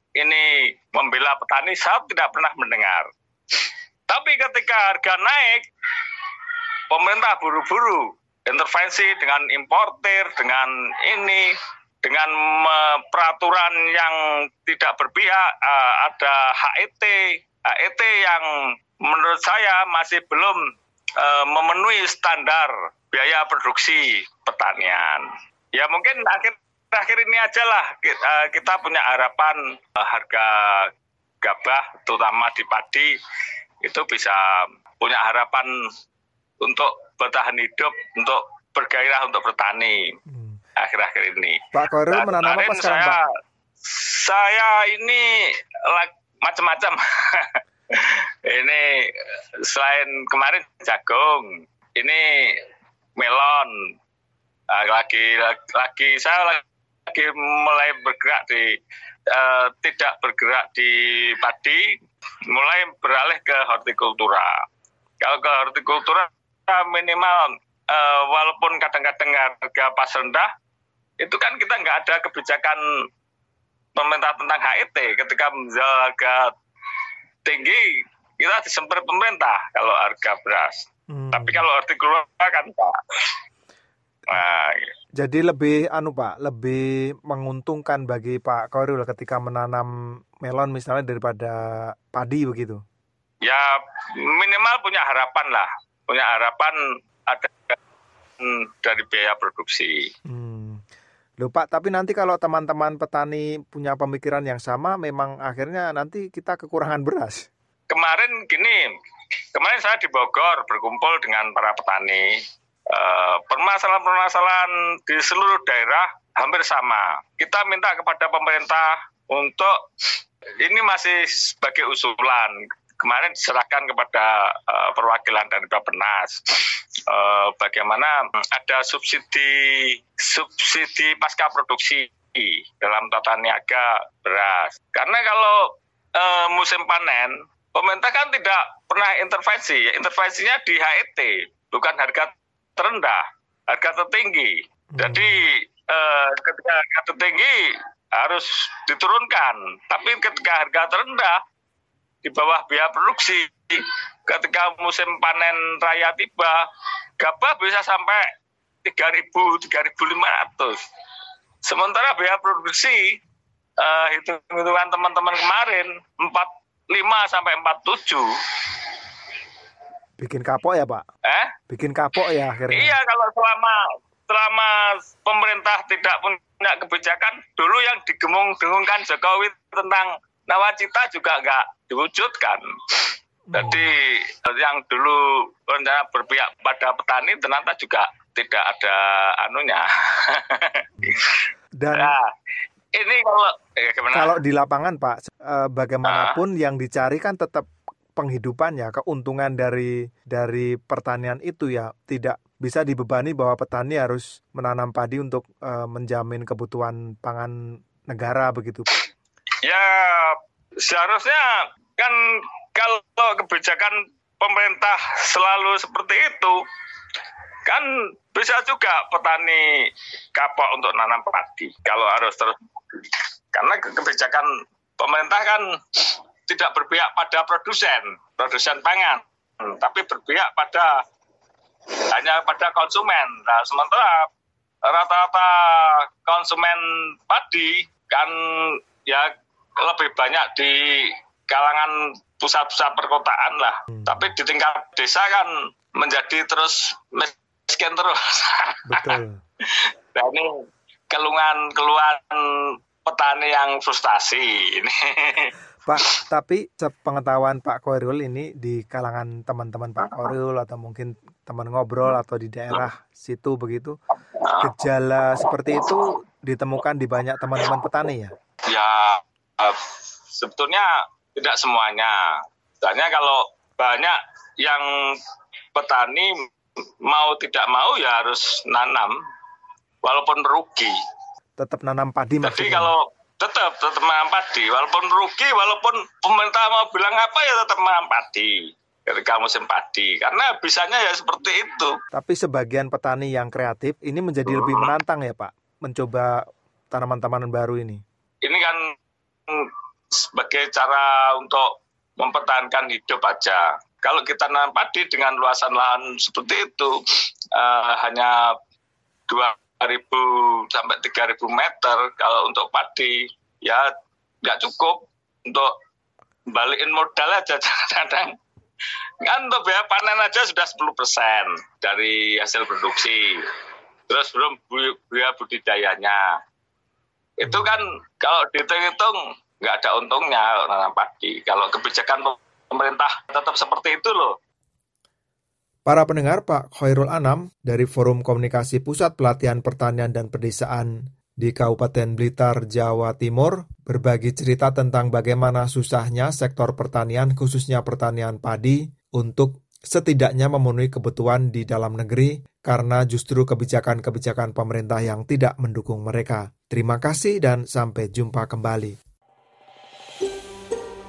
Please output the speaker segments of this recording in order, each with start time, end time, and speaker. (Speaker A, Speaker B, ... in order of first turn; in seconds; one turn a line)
Speaker A: 0.2-6.3
Speaker A: 6.9-11.4
Speaker A: 12.0-17.2
Speaker A: 17.7-18.4
Speaker A: 19.1-20.6
Speaker A: 21.2-25.2
Speaker A: 25.8-30.9
Speaker A: 31.4-33.1
Speaker A: 33.8-35.7
Speaker A: 36.6-40.0
Speaker B: 40.3-40.6
Speaker A: 40.8-41.6
Speaker B: 41.7-43.2
Speaker A: 42.1-43.2
Speaker A: 43.8-45.3
Speaker A: 45.9-49.1
Speaker A: 49.7-52.6
Speaker A: 53.2-53.7
Speaker A: 54.7-58.7
Speaker A: 59.3-61.8
Speaker A: 62.5-64.5
Speaker A: 65.2-70.5
Speaker A: 71.2-72.8
Speaker A: 74.0-76.5
Speaker A: 77.5-77.8
Speaker A: 78.4-82.9
Speaker B: 81.1-81.6
Speaker A: 84.3-84.8
Speaker B: 85.2-89.9
Speaker B: 90.4-91.6
Speaker B: 92.1-92.8
Speaker A: 93.4-93.7
Speaker A: 94.3-97.7
Speaker A: 98.4-100.0
Speaker B: 100.3-100.8
Speaker B: 101.4-107.5
Speaker A: 107.9-108.8
Speaker A: 109.5-112.3
Speaker A: 112.9-119.7
Speaker A: 120.6-126.4
Speaker A: 127.1-135.6
Speaker A: 136.2-147.6
Speaker B: 144.9-145.3
Speaker A: 148.2-151.4
Speaker A: 152.2-156.6
Speaker A: 157.2-158.2
Speaker A: 158.8-160.8
Speaker A: 161.7-163.1
Speaker A: 163.8-169.0
Speaker B: 170.2-171.0
Speaker A: 171.2-171.5
Speaker B: 171.7-172.9
Speaker A: 172.7-183.0
Speaker B: 183.5-183.9
Speaker A: 183.5-191.4
Speaker B: 191.8-192.1
Speaker A: 191.9-192.3
Speaker A: 192.9-194.4
Speaker B: 194.1-207.5
Speaker A: 196.1-196.4
Speaker B: 208.1-208.8
Speaker A: 209.6-211.4
Speaker A: 212.7-216.6
Speaker A: 217.7-219.6
Speaker A: 220.3-224.5
Speaker A: 225.0-230.9
Speaker A: 232.1-234.3
Speaker A: 234.9-239.3
Speaker A: 239.8-249.1
Speaker B: 243.9-244.3
Speaker B: 248.9-249.3
Speaker A: 249.8-250.5
Speaker A: 251.1-252.4
Speaker A: 253.0-255.5
Speaker B: 255.8-263.9
Speaker A: 260.0-260.3
Speaker A: 264.4-264.7
Speaker B: 264.6-268.3
Speaker A: 268.7-269.8
Speaker A: 270.4-272.2
Speaker A: 272.8-274.9
Speaker A: 275.7-276.3
Speaker A: 277.1-279.1
Speaker A: 280.0-280.9
Speaker B: 281.6-282.9
Speaker A: 282.4-288.5
Speaker A: 289.1-291.9
Speaker B: 292.1-296.3
Speaker A: 294.4-294.9
Speaker B: 296.9-298.0
Speaker A: 298.4-298.8
Speaker A: 300.2-306.9
Speaker A: 307.5-308.3
Speaker A: 309.3-313.8
Speaker A: 314.4-315.7
Speaker A: 316.5-318.3
Speaker A: 319.2-323.3
Speaker A: 324.1-326.2
Speaker A: 327.4-334.3
Speaker B: 327.4-327.7
Speaker B: 335.8-359.0